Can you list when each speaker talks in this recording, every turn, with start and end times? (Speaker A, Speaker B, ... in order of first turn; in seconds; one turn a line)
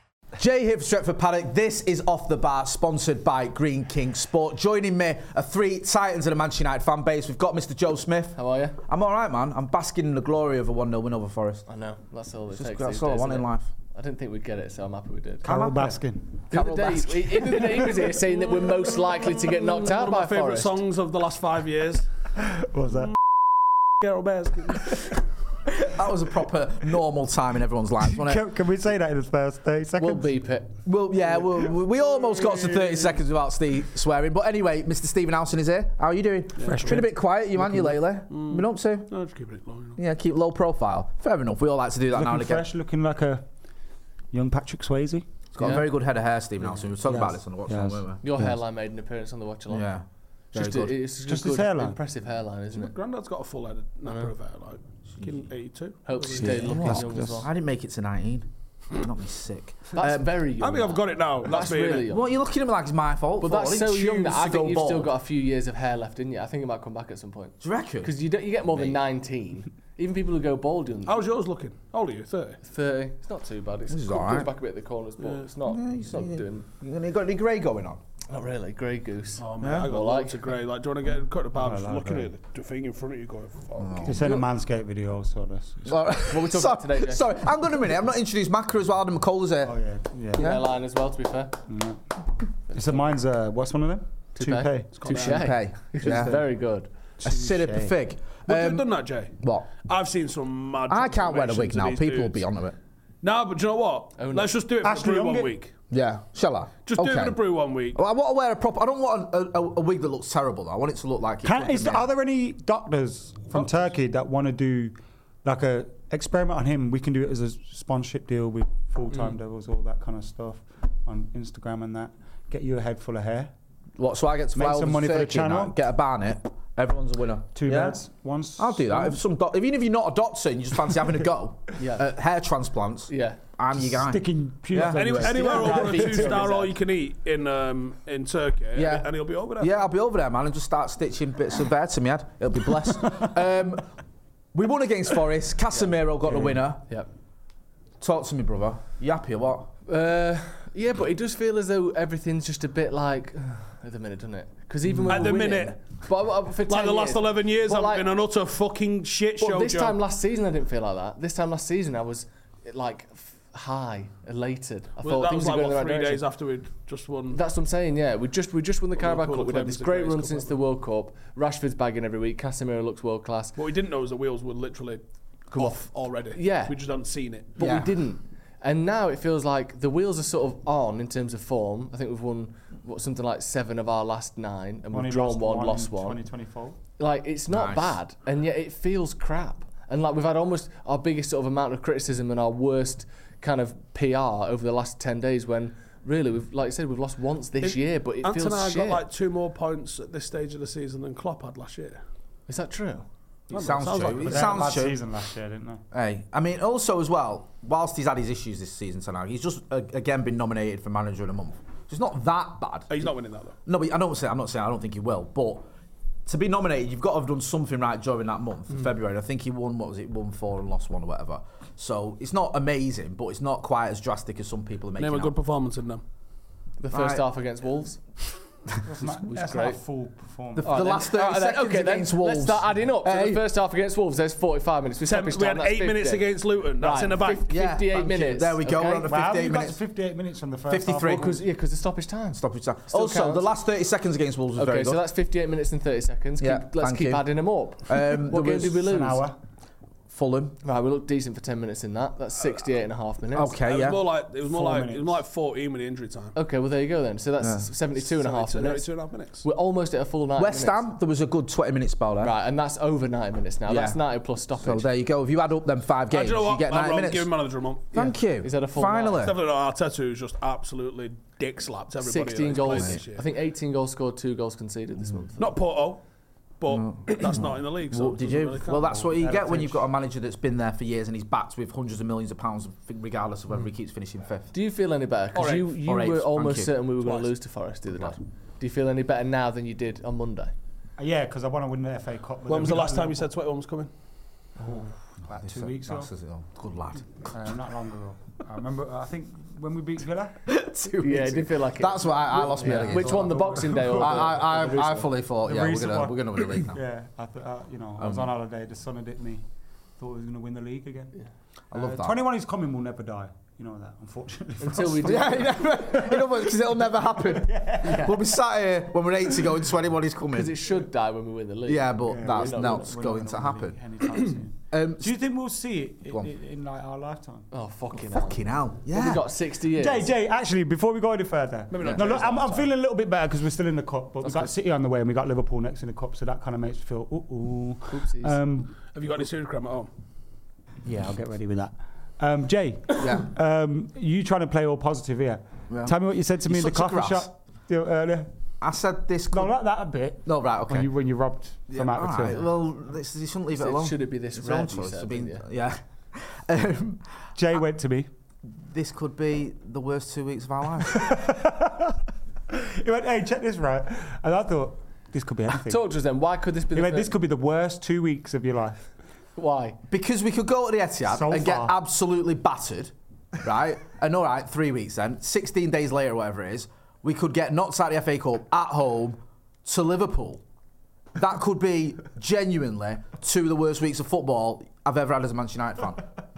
Speaker A: 0.4-11.7
Speaker B: 8.3-8.8
Speaker B: 11.7-15.4
Speaker A: 12.5-13.7
Speaker C: 15.4-16.4
Speaker A: 15.4-17.6
Speaker B: 16.5-20.8
Speaker D: 18.6-22.1
Speaker C: 22.4-23.1
Speaker D: 24.0-25.1
Speaker A: 25.7-28.4
Speaker C: 28.1-30.3
Speaker B: 30.0-30.8
Speaker A: 30.8-39.1
Speaker D: 32.1-33.1
Speaker D: 36.6-37.1
Speaker C: 36.6-38.0
Speaker D: 38.3-40.0
Speaker A: 40.0-42.6
Speaker C: 42.1-43.5
Speaker C: 44.3-45.8
Speaker A: 45.5-48.2
Speaker C: 47.0-48.5
Speaker B: 48.2-49.9
Speaker A: 49.7-50.9
Speaker B: 50.5-52.9
Speaker C: 51.2-52.0
Speaker D: 52.7-56.8
Speaker B: 56.0-57.5
Speaker A: 56.4-60.2
Speaker C: 56.7-57.4
Speaker B: 59.9-62.2
Speaker D: 60.6-62.1
Speaker A: 62.0-65.1
Speaker B: 63.4-71.2
Speaker A: 67.6-68.1
Speaker D: 71.1-72.6
Speaker B: 72.6-76.7
Speaker A: 73.9-74.5
Speaker A: 75.6-78.0
Speaker B: 78.3-80.4
Speaker D: 79.4-84.4
Speaker A: 79.6-79.9
Speaker C: 81.6-82.3
Speaker A: 83.8-84.4
Speaker C: 84.0-86.0
Speaker A: 85.8-89.8
Speaker B: 86.3-87.3
Speaker C: 89.6-90.5
Speaker A: 90.3-90.6
Speaker B: 90.3-91.6
Speaker C: 91.7-92.0
Speaker C: 92.7-95.4
Speaker B: 92.7-93.0
Speaker B: 94.3-96.9
Speaker D: 95.0-95.4
Speaker A: 95.1-96.4
Speaker C: 96.0-96.5
Speaker C: 97.2-97.9
Speaker A: 97.2-99.7
Speaker D: 98.5-102.4
Speaker A: 100.9-102.7
Speaker D: 103.2-105.7
Speaker B: 104.2-104.5
Speaker C: 104.8-105.5
Speaker A: 105.9-107.4
Speaker D: 106.8-108.0
Speaker A: 107.9-112.1
Speaker C: 111.4-123.5
Speaker A: 124.0-128.0
Speaker C: 124.5-125.8
Speaker C: 127.5-129.2
Speaker A: 128.6-135.6
Speaker B: 131.8-132.1
Speaker B: 133.1-133.4
Speaker C: 133.8-136.5
Speaker D: 134.7-139.7
Speaker B: 135.4-136.7
Speaker A: 138.7-143.9
Speaker A: 144.5-146.8
Speaker B: 145.7-147.1
Speaker A: 148.0-149.7
Speaker B: 149.8-158.1
Speaker D: 155.1-155.8
Speaker D: 156.7-160.0
Speaker B: 159.4-166.2
Speaker D: 165.0-167.4
Speaker B: 167.3-173.6
Speaker D: 168.9-170.6
Speaker D: 173.6-177.6
Speaker B: 175.5-176.8
Speaker B: 177.5-186.2
Speaker A: 177.6-177.9
Speaker C: 184.9-186.8
Speaker B: 187.0-199.0
Speaker A: 187.5-188.0
Speaker D: 197.6-202.0
Speaker B: 202.5-203.1
Speaker D: 203.5-204.8
Speaker A: 203.5-205.0
Speaker C: 204.1-205.8
Speaker A: 205.9-213.0
Speaker D: 212.9-213.5
Speaker A: 213.7-215.7
Speaker A: 216.2-225.3
Speaker D: 225.0-226.0
Speaker B: 226.8-228.0
Speaker A: 226.9-227.2
Speaker C: 228.8-230.9
Speaker B: 229.0-229.8
Speaker A: 230.6-233.4
Speaker B: 230.6-236.2
Speaker D: 235.1-237.5
Speaker B: 236.8-239.1
Speaker A: 237.5-239.8
Speaker C: 239.0-241.3
Speaker A: 240.7-241.4
Speaker B: 241.0-243.5
Speaker A: 242.3-245.0
Speaker B: 244.6-249.2
Speaker A: 246.4-247.3
Speaker A: 247.8-248.8
Speaker C: 248.5-249.4
Speaker A: 250.1-250.6
Speaker B: 250.6-253.6
Speaker A: 253.3-254.1
Speaker D: 253.6-256.3
Speaker C: 254.5-255.2
Speaker B: 256.3-258.9
Speaker A: 257.4-257.7
Speaker D: 257.9-259.4
Speaker B: 259.4-260.9
Speaker A: 260.4-262.3
Speaker B: 262.2-264.9
Speaker A: 263.7-264.0
Speaker A: 264.6-267.3
Speaker D: 266.1-267.9
Speaker B: 267.9-269.2
Speaker A: 267.9-269.4
Speaker D: 269.0-273.2
Speaker B: 272.0-275.5
Speaker A: 272.7-273.0
Speaker D: 275.4-276.0
Speaker D: 276.6-279.0
Speaker A: 276.8-284.5
Speaker C: 278.9-279.8
Speaker B: 284.5-290.5
Speaker D: 285.3-285.7
Speaker A: 285.8-286.7
Speaker D: 287.0-287.3
Speaker C: 291.0-293.2
Speaker D: 292.5-293.9
Speaker B: 294.6-294.9
Speaker C: 294.6-296.1
Speaker A: 295.3-297.5
Speaker C: 297.3-300.5
Speaker A: 300.5-306.8
Speaker B: 301.0-305.1
Speaker C: 302.4-304.4
Speaker C: 305.4-309.4
Speaker A: 308.0-308.3
Speaker C: 310.0-311.1
Speaker A: 311.7-312.2
Speaker C: 311.7-318.2
Speaker B: 314.6-315.6
Speaker A: 315.0-320.7
Speaker B: 320.3-322.9
Speaker A: 321.6-323.8
Speaker C: 322.1-327.5
Speaker A: 324.7-325.1
Speaker B: 327.5-330.1
Speaker A: 327.9-329.2
Speaker C: 329.7-338.9
Speaker D: 331.7-332.7
Speaker A: 331.8-332.2
Speaker B: 334.2-334.5
Speaker B: 337.9-338.4
Speaker D: 338.9-339.9
Speaker C: 340.8-348.3
Speaker A: 343.0-343.3
Speaker A: 345.7-347.3
Speaker A: 348.6-349.5
Speaker C: 349.3-352.4
Speaker A: 350.2-350.9
Speaker A: 351.7-357.1
Speaker B: 353.6-355.4
Speaker C: 357.3-358.1
Speaker A: 358.5-361.2
Speaker C: 360.9-362.0
Speaker C: 362.5-365.9
Speaker B: 365.6-367.1
Speaker C: 366.7-368.8
Speaker B: 369.4-369.8
Speaker A: 369.9-380.4
Speaker C: 371.1-371.7
Speaker A: 381.1-386.1